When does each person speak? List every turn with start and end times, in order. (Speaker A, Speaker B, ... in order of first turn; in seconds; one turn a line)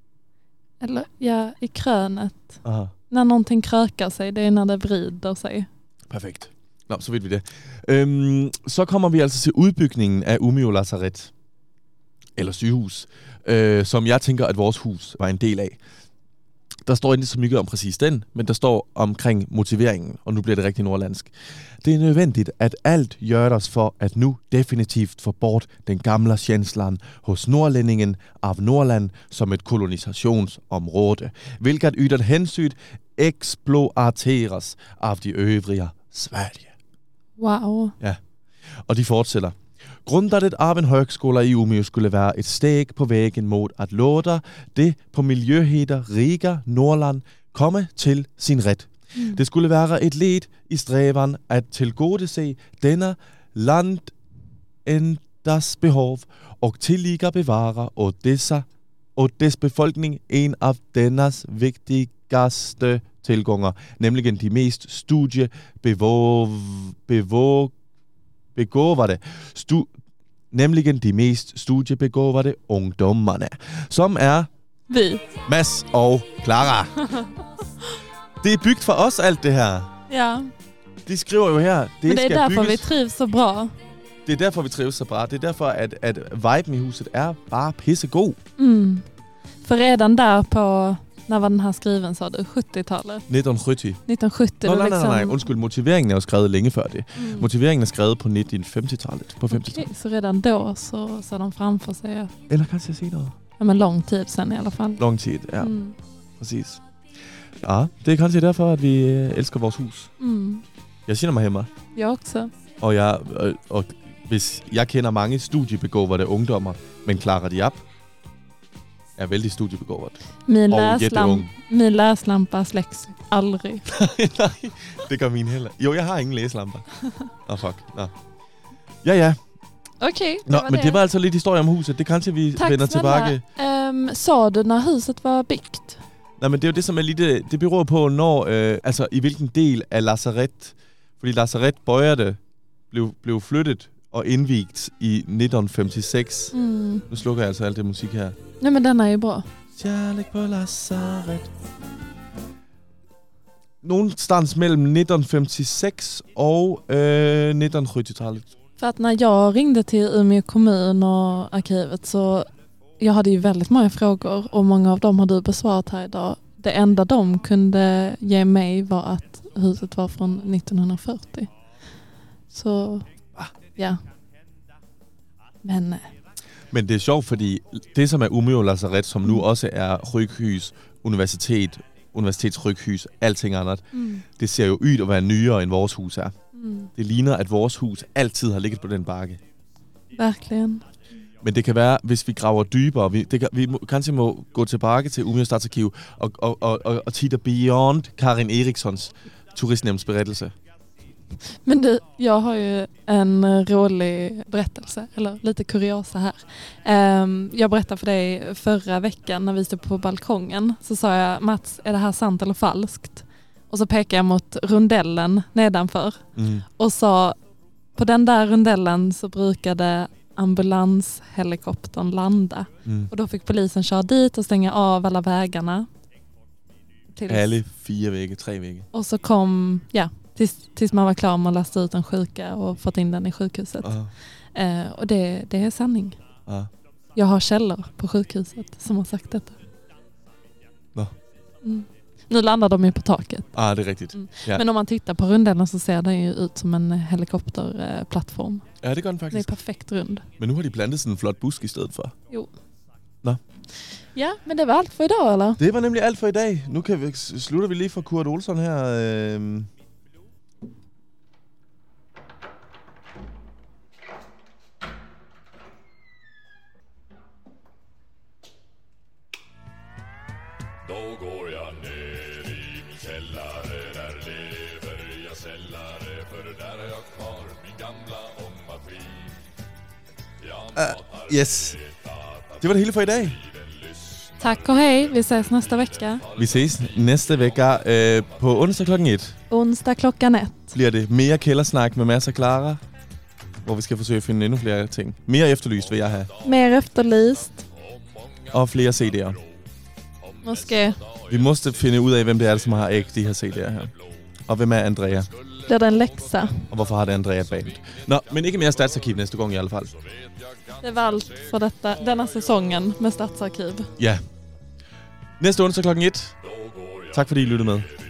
Speaker A: 0.8-5.7
Speaker B: 2.6-2.9
Speaker B: 6.1-11.3
Speaker B: 12.4-15.8
Speaker B: 16.9-21.3
Speaker B: 21.8-36.7
Speaker A: 37.4-38.0
Speaker B: 38.9-54.1
Speaker A: 49.1-49.4
Speaker B: 54.9-67.7
Speaker B: 68.5-69.9
Speaker B: 70.5-74.5
Speaker A: 74.9-75.3
Speaker B: 75.5-77.0
Speaker B: 78.4-79.9
Speaker A: 80.1-80.5
Speaker B: 81.0-82.9
Speaker A: 82.1-83.7
Speaker B: 84.3-88.4
Speaker A: 88.6-89.0
Speaker A: 89.6-93.3
Speaker B: 93.3-94.0
Speaker A: 94.1-95.5
Speaker B: 94.6-99.9
Speaker A: 97.2-97.5
Speaker A: 99.5-102.3
Speaker B: 102.5-103.4
Speaker A: 103.6-105.0
Speaker B: 105.0-105.7
Speaker A: 105.6-106.0
Speaker B: 106.4-106.8
Speaker B: 107.6-110.1
Speaker A: 110.2-110.6
Speaker B: 111.1-111.7
Speaker A: 112.0-112.5
Speaker B: 112.8-117.8
Speaker B: 119.2-121.5
Speaker A: 120.5-123.9
Speaker B: 123.9-126.9
Speaker B: 127.4-128.1
Speaker B: 129.0-129.4
Speaker A: 130.0-131.0
Speaker B: 130.5-133.4
Speaker A: 132.6-136.0
Speaker B: 136.4-142.4
Speaker B: 142.9-146.6
Speaker A: 146.5-147.0
Speaker B: 147.1-148.4
Speaker A: 148.6-149.5
Speaker B: 149.8-151.5
Speaker B: 153.8-158.5
Speaker A: 158.8-162.5
Speaker A: 163.0-171.5
Speaker A: 172.5-173.1
Speaker A: 173.8-174.0
Speaker A: 175.6-176.1
Speaker B: 176.7-186.3
Speaker A: 183.9-184.2
Speaker A: 186.6-186.9
Speaker B: 187.0-189.4
Speaker A: 190.1-190.8
Speaker B: 191.4-200.5
Speaker A: 201.7-217.4
Speaker B: 216.4-216.7
Speaker A: 217.9-225.9
Speaker B: 222.8-223.1
Speaker A: 227.1-227.5
Speaker B: 227.3-228.9
Speaker A: 228.9-234.0
Speaker B: 233.8-234.1
Speaker A: 234.5-236.2
Speaker A: 237.2-239.6
Speaker A: 241.6-243.5
Speaker B: 243.5-244.6
Speaker A: 244.1-248.7
Speaker B: 248.8-249.5
Speaker A: 249.3-250.3
Speaker B: 250.4-252.1
Speaker A: 254.1-255.6
Speaker B: 255.6-259.7
Speaker C: 270.8-279.3
Speaker C: 280.4-282.4
Speaker B: 280.8-281.8
Speaker B: 282.6-283.4
Speaker C: 283.7-284.4
Speaker A: 284.4-286.2
Speaker B: 286.4-289.4
Speaker A: 289.5-290.8
Speaker B: 290.7-292.8
Speaker B: 293.6-296.3
Speaker A: 296.4-297.6
Speaker B: 298.5-299.4
Speaker A: 300.4-301.0
Speaker B: 301.3-303.9
Speaker B: 304.5-305.3
Speaker A: 305.6-306.7
Speaker B: 306.7-309.9
Speaker A: 310.8-313.9
Speaker B: 314.0-314.2
Speaker B: 315.4-316.4
Speaker C: 316.5-317.2
Speaker B: 317.1-317.9